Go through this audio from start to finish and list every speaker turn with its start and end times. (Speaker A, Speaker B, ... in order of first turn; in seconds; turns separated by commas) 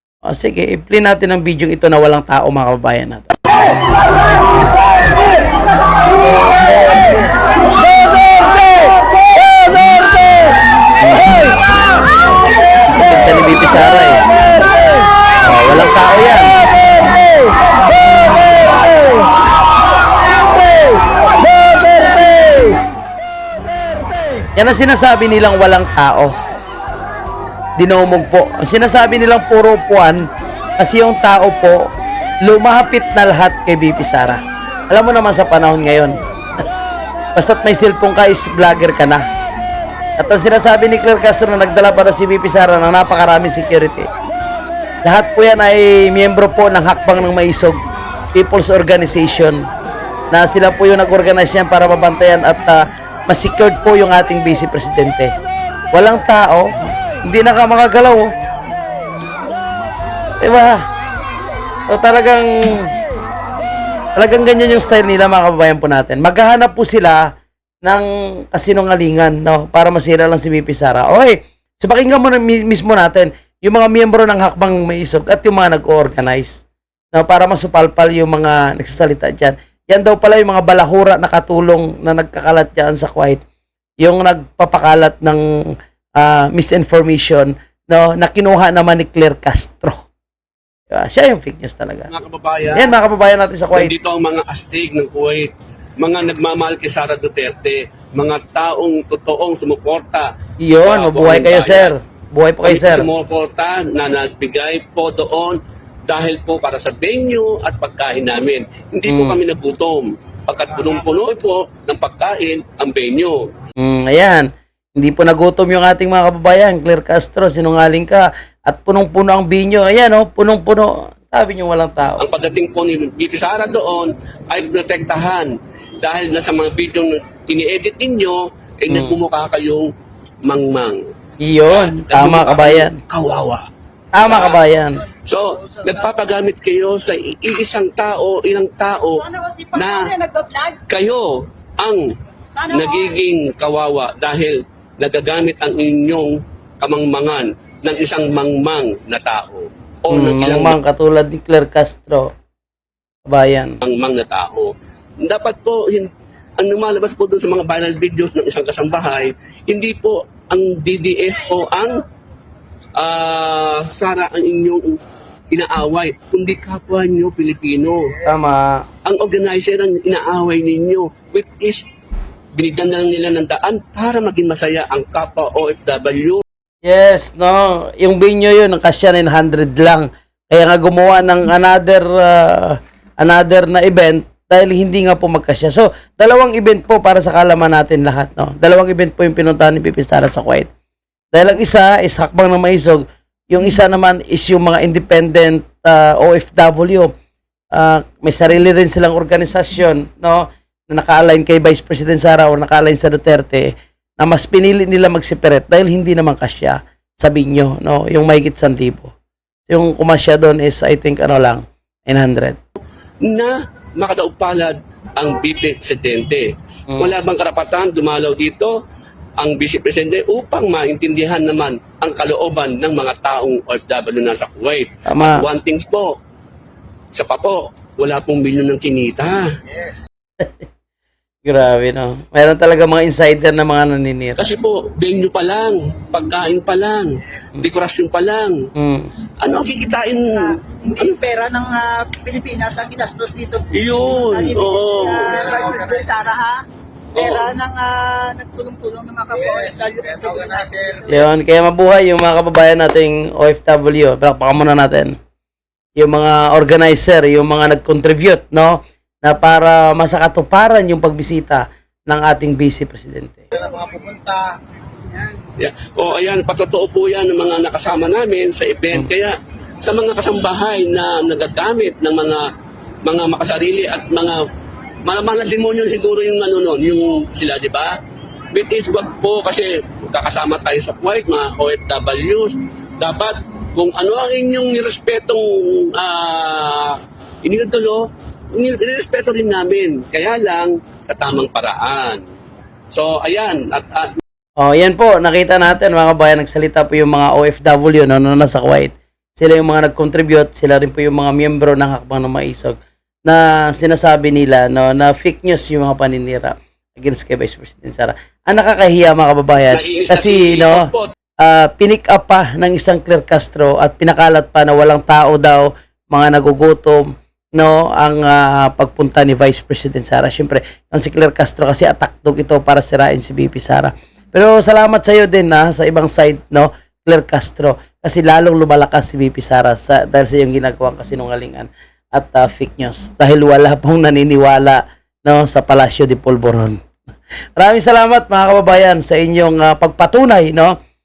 Speaker A: 0.3-3.4, Speaker A: 11.0-11.3, Speaker A: 12.9-14.2, Speaker A: 15.4-16.5, Speaker A: 24.6-26.3, Speaker A: 27.8-30.2, Speaker A: 30.8-31.9, Speaker A: 32.4-36.2, Speaker A: 37.4-39.2, Speaker A: 40.2-44.1, Speaker A: 45.0-47.8, Speaker A: 48.4-49.6, Speaker A: 50.3-55.3, Speaker A: 55.9-58.3, Speaker A: 60.4-60.8, Speaker A: 61.9-62.9, Speaker A: 64.2-67.2, Speaker A: 67.8-76.6, Speaker A: 77.1-83.4, Speaker A: 84.0-85.4, Speaker A: 86.2-90.0, Speaker A: 90.9-92.1, Speaker B: 92.1-92.9, Speaker A: 92.7-93.9, Speaker B: 93.8-100.3, Speaker A: 100.6-103.1, Speaker B: 100.8-101.9, Speaker B: 102.6-113.4, Speaker A: 109.1-109.4, Speaker A: 113.8-122.2, Speaker B: 122.2-129.9, Speaker A: 128.9-129.2, Speaker B: 130.4-131.0, Speaker A: 131.4-133.0, Speaker B: 131.7-133.7, Speaker A: 134.1-135.0, Speaker B: 134.2-134.6, Speaker B: 135.2-141.3, Speaker B: 141.8-142.0, Speaker B: 142.7-150.8, Speaker A: 150.1-152.3, Speaker A: 153.3-153.8, Speaker B: 153.8-154.7, Speaker B: 155.2-162.0, Speaker B: 163.0-164.9, Speaker B: 165.5-168.1, Speaker A: 168.2-168.8, Speaker B: 169.1-171.8, Speaker B: 172.6-176.4, Speaker A: 176.8-190.7, Speaker A: 191.3-197.1, Speaker A: 197.7-209.1, Speaker A: 209.7-212.6, Speaker B: 213.2-218.7, Speaker B: 219.4-226.1, Speaker A: 225.1-225.4, Speaker B: 227.1-229.5, Speaker A: 231.4-234.5, Speaker B: 234.4-238.6, Speaker A: 238.8-239.1, Speaker B: 239.4-241.2, Speaker C: 240.9-246.6, Speaker B: 243.7-245.6, Speaker B: 247.2-247.6, Speaker C: 247.2-251.0, Speaker A: 251.1-255.1, Speaker A: 256.0-263.4, Speaker B: 265.6-272.4, Speaker B: 273.1-274.4, Speaker B: 275.0-278.0, Speaker B: 278.5-288.0, Speaker B: 288.6-292.2, Speaker B: 292.9-294.2, Speaker A: 294.6-302.8, Speaker A: 303.3-310.9, Speaker B: 309.7-311.1, Speaker A: 311.4-317.0, Speaker A: 317.6-336.9, Speaker A: 337.6-340.8